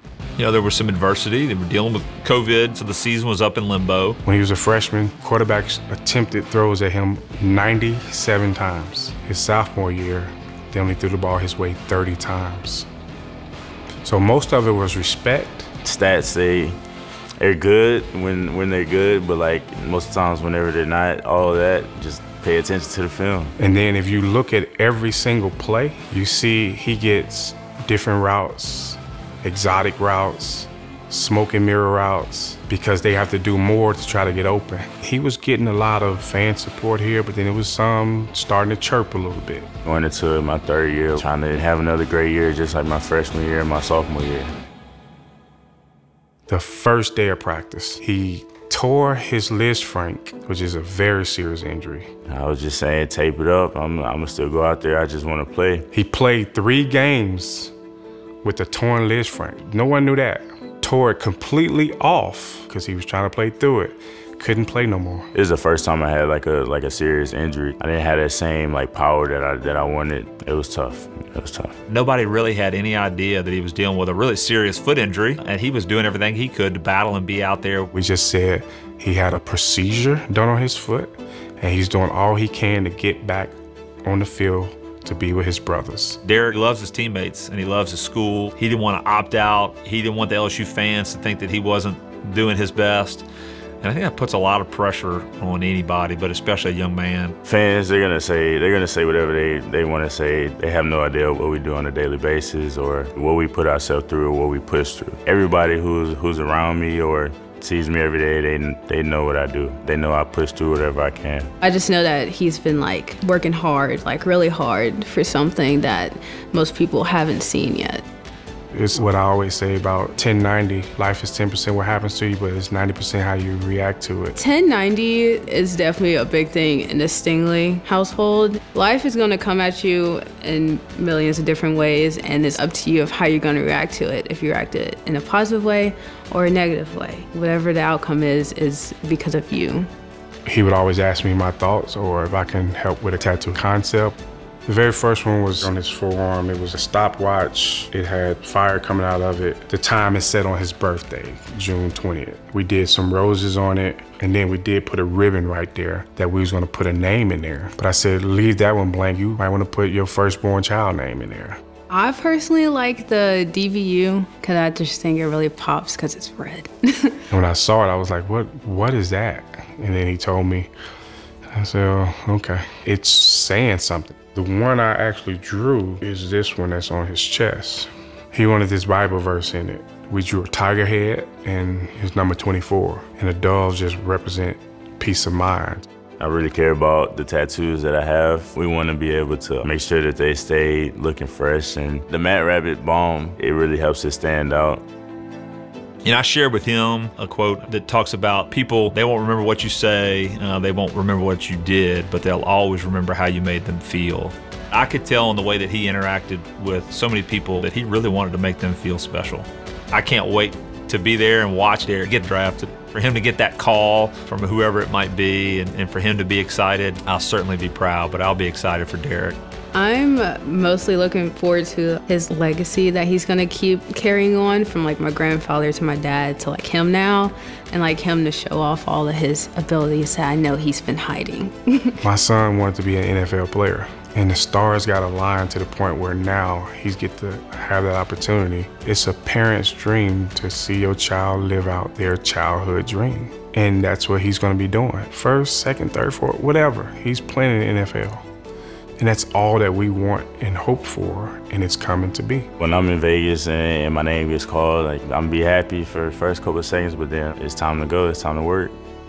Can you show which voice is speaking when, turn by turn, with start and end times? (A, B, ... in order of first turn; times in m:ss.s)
0:00.4-0:04.2 A
0:04.2-0:12.9 B
0:14.0-0:15.7 B
0:15.8-0:16.8 C
0:17.4-0:23.5 C
0:23.6-0:39.7 B
0:39.8-0:44.5 C
0:46.5-0:52.1 B
0:52.3-0:55.9 C
0:55.9-0:57.7 B
0:58.4-1:05.3 B
1:05.3-1:11.7 C
1:11.9-1:17.9 A
1:17.9-1:26.2 B
1:26.2-1:33.2 A
1:33.8-1:37.3 A
1:37.4-1:51.5 C
1:51.6-1:58.0 D
1:58.7-2:04.4 B
2:04.4-2:19.9 D
2:20.4-2:41.6 B
2:41.9-2:47.2 D
2:47.3-2:50.7 B
2:51.5-3:05.8 B
3:06.2-3:14.8 C
3:16.0-3:39.4 A
3:39.7-3:52.0 D
3:52.0-4:08.2 B
4:09.0-4:12.5 B
4:12.6-4:18.8 C